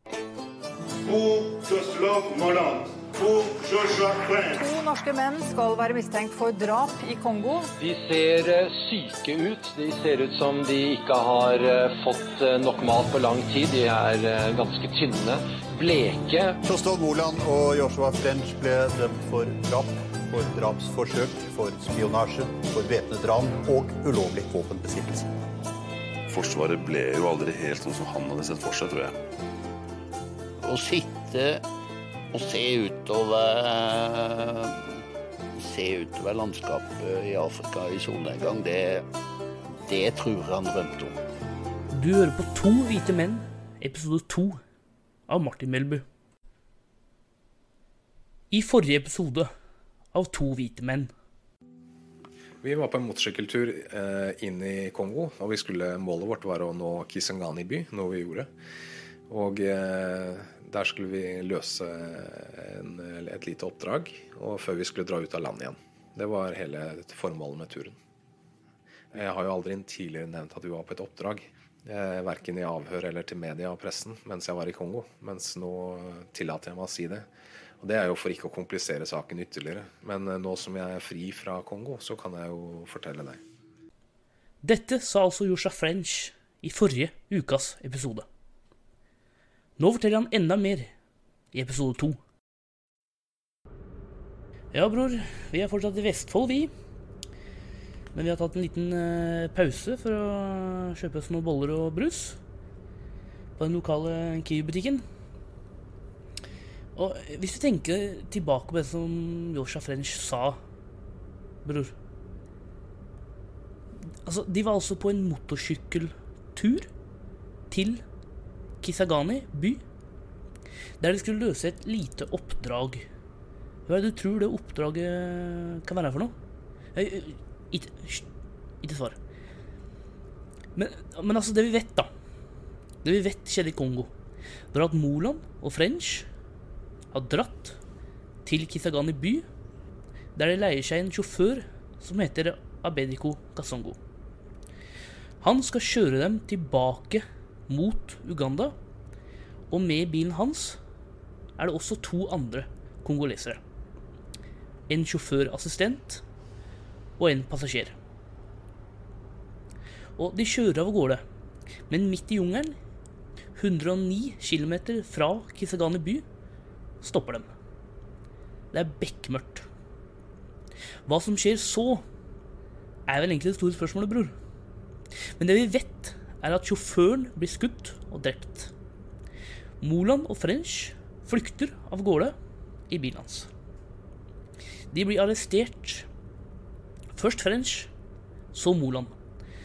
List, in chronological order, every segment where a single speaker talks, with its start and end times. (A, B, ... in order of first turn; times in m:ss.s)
0:01.0-0:04.6 A
0:04.6-0:07.7 B
0:07.8-0:16.6 C
0:16.6-0:25.3 D
0:26.3-0:29.2 E
0:30.6-0:31.6 F
0:32.3-0:35.0 F
0:35.6-0:39.0 F
0:39.8-0:41.2 F
0:41.9-0:44.6 G
0:45.3-0:46.0 G
0:48.5-0:49.5 G
0:50.1-0:51.1 G
0:52.6-0:58.5 H
0:59.3-1:08.0 H
1:09.1-1:17.3 H
1:17.8-1:23.4 H
1:24.6-1:28.2 G
1:29.8-1:30.9 G
1:31.5-1:32.2 G
1:34.7-1:36.7 G
1:38.1-1:42.4 G
1:43.6-1:45.0 G
1:47.0-1:50.6 G
1:51.6-1:51.9 G
1:54.2-1:56.9 G
1:57.7-1:58.0 G
1:58.8-1:59.8 G
2:01.0-2:03.0 G
2:03.9-2:06.3 G
2:06.9-2:08.2 G
2:08.8-2:09.2 G
2:10.7-2:12.1 G
2:13.0-2:14.1 G
2:14.7-2:16.3 G
2:17.1-2:17.8 G
2:18.4-2:19.4 G
2:20.4-2:24.0 G
2:25.4-2:28.8 G
2:29.7-2:30.8 G
2:31.6-2:33.6 G
2:34.9-2:36.2 G
2:37.2-2:37.9 G
2:40.2-2:41.2 G
2:41.9-2:42.8 G
2:43.6-2:46.2 G
2:47.0-2:47.5 G
2:48.7-2:49.6 G
2:51.0-2:52.0 G
2:53.1-2:54.3 G
2:55.4-2:58.7 G
2:59.8-3:02.3 G
3:02.9-3:03.5 G
3:04.9-3:06.1 G
3:07.1-3:07.9 G
3:08.5-3:09.1 G